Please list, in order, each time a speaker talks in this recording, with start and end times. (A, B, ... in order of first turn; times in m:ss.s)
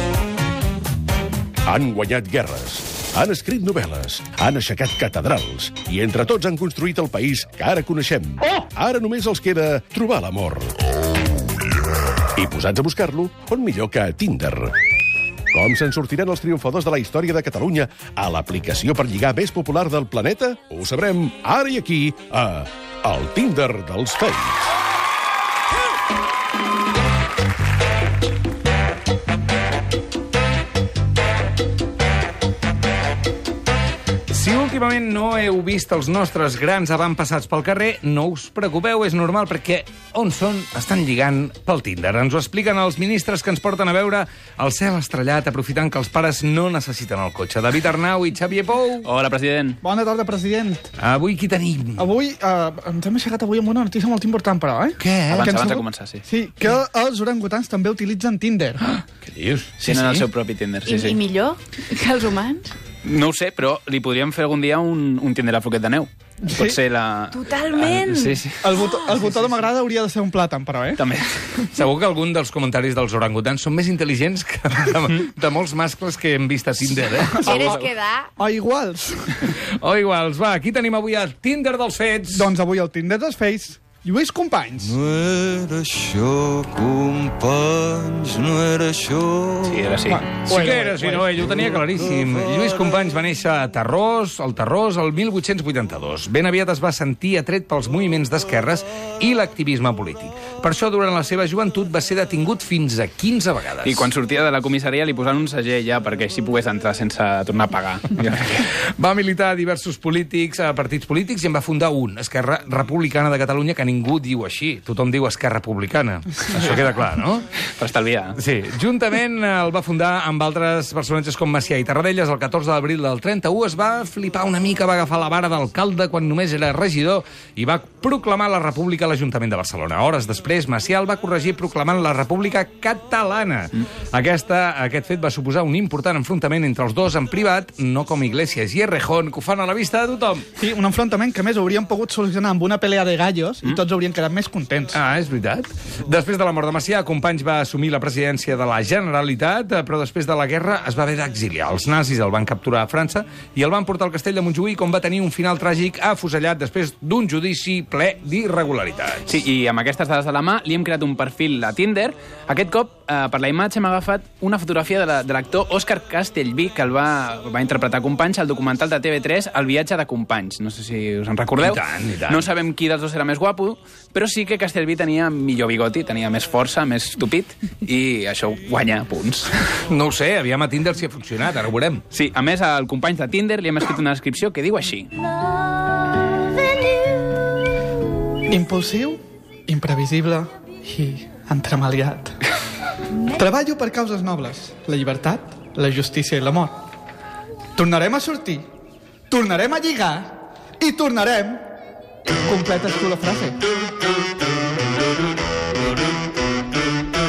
0:01.7-0:10.8 A
0:12.4-0:14.8 A
0:15.5-0:24.7 A
0:34.3-0:49.1 B
0:49.0-0:49.8 C
0:49.8-0:50.9 D
0:51.0-0:52.1 B
0:52.0-0:58.9 D
0:55.0-0:55.8 B
0:55.3-0:56.3 C
0:58.8-1:00.3 B
0:59.8-1:01.2 C
1:00.8-1:02.7 E
1:03.0-1:09.7 C
1:06.4-1:06.8 D
1:07.3-1:09.0 E
1:08.6-1:11.0 D
1:11.0-1:11.5 C
1:11.7-1:17.6 B
1:17.4-1:18.3 E
1:17.4-1:17.9 C
1:18.4-1:19.6 D
1:19.6-1:22.5 B
1:22.3-1:25.0 D
1:25.1-1:29.6 F
1:29.6-1:30.3 C
1:30.0-1:31.4 D
1:30.5-1:44.1 B
1:43.8-1:48.7 C
1:49.0-1:57.4 B
1:57.7-1:58.4 C
1:58.4-2:20.5 B
2:20.6-2:25.0 D
2:24.9-2:39.4 B
2:39.3-2:59.5 C
2:51.6-2:52.5 B
2:59.9-3:02.0 B
3:02.1-3:05.1 C
3:08.5-3:12.4 D
3:13.3-3:16.8 D
3:17.8-3:18.6 D
3:19.3-3:21.6 D
3:22.3-3:23.6 D